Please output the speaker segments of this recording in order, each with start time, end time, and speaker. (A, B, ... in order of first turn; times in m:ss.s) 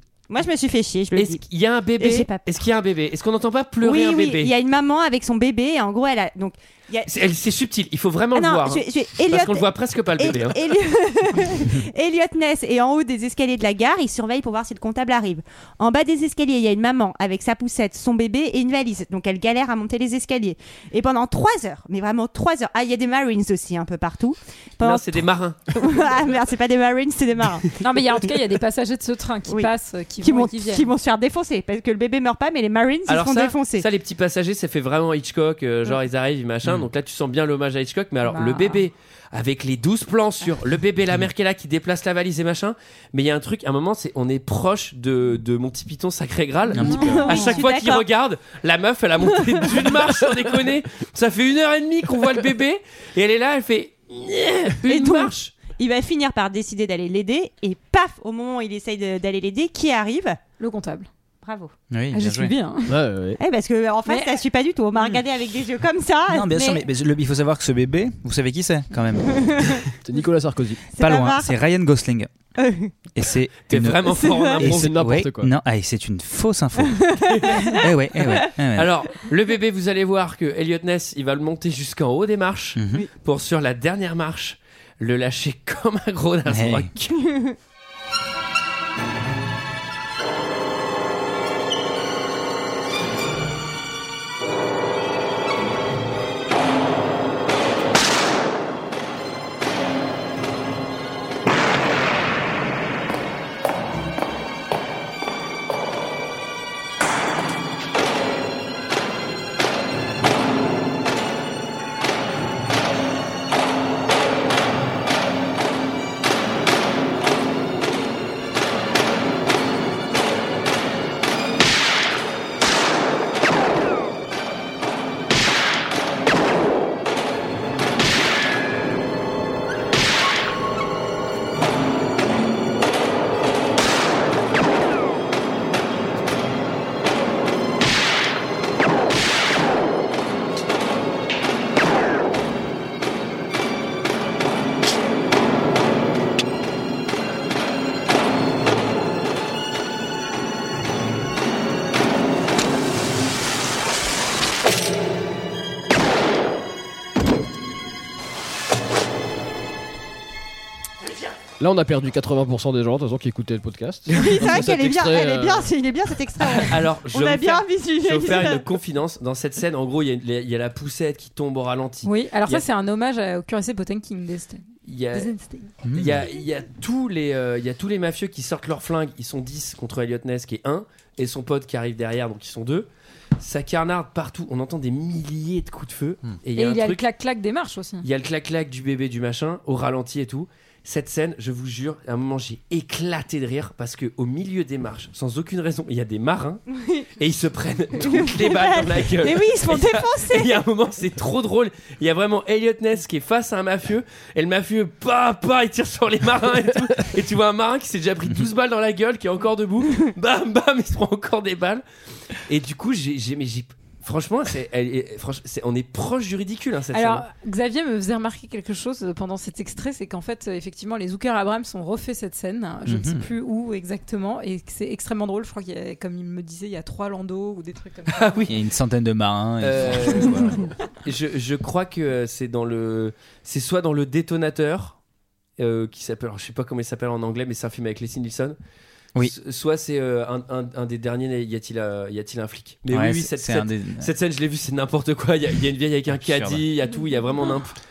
0:00.3-0:01.4 A
0:01.1-0:04.5 B
0:02.0-0:02.5 A
0:03.8-0:07.1 A
0:07.0-0:10.6 B
0:08.3-0:27.7 A
0:24.8-0:26.2 B
0:27.8-0:30.9 C
0:29.5-0:33.8 A
0:33.1-0:55.5 B
0:38.2-0:38.8 C
0:46.7-0:47.4 D
0:46.8-0:47.5 C
0:46.9-0:48.0 A
0:54.8-1:00.4 A
1:00.6-1:01.1 C
1:01.4-1:01.7 A
1:01.9-1:02.5 D
1:02.1-1:03.0 C
1:02.9-1:03.4 E
1:03.4-1:06.8 A
1:04.1-1:04.4 C
1:06.3-1:09.8 D
1:09.3-1:09.8 A
1:10.0-1:10.8 E
1:10.9-1:11.5 A
1:11.0-1:12.3 D
1:12.6-1:12.9 A
1:13.1-1:17.2 D
1:13.7-1:15.0 B
1:14.1-1:14.6 A
1:14.6-1:15.5 E
1:16.9-1:17.1 A
1:17.3-1:17.7 B
1:17.8-1:18.9 D
1:18.7-1:27.2 B
1:22.8-1:23.0 D
1:26.5-1:26.9 D
1:27.3-1:27.5 A
2:41.6-2:45.7 E
2:44.1-2:48.6 A
2:46.7-2:52.6 B
2:52.0-2:55.7 C
2:54.8-2:55.3 B
2:55.8-2:56.2 D
2:55.9-3:02.9 B
3:03.4-3:07.0 B
3:06.6-3:08.0 C
3:08.0-3:16.6 B
3:16.7-3:17.1 A
3:17.2-3:31.8 B
3:18.0-3:20.6 A
3:32.5-3:37.2 B
3:36.9-3:48.4 C
3:42.8-3:43.2 D
3:48.1-3:48.5 B
3:48.5-3:50.7 D
3:49.6-3:55.0 B
3:55.6-3:58.6 B
3:59.2-4:07.8 B
4:02.9-4:04.1 D
4:06.2-4:06.6 D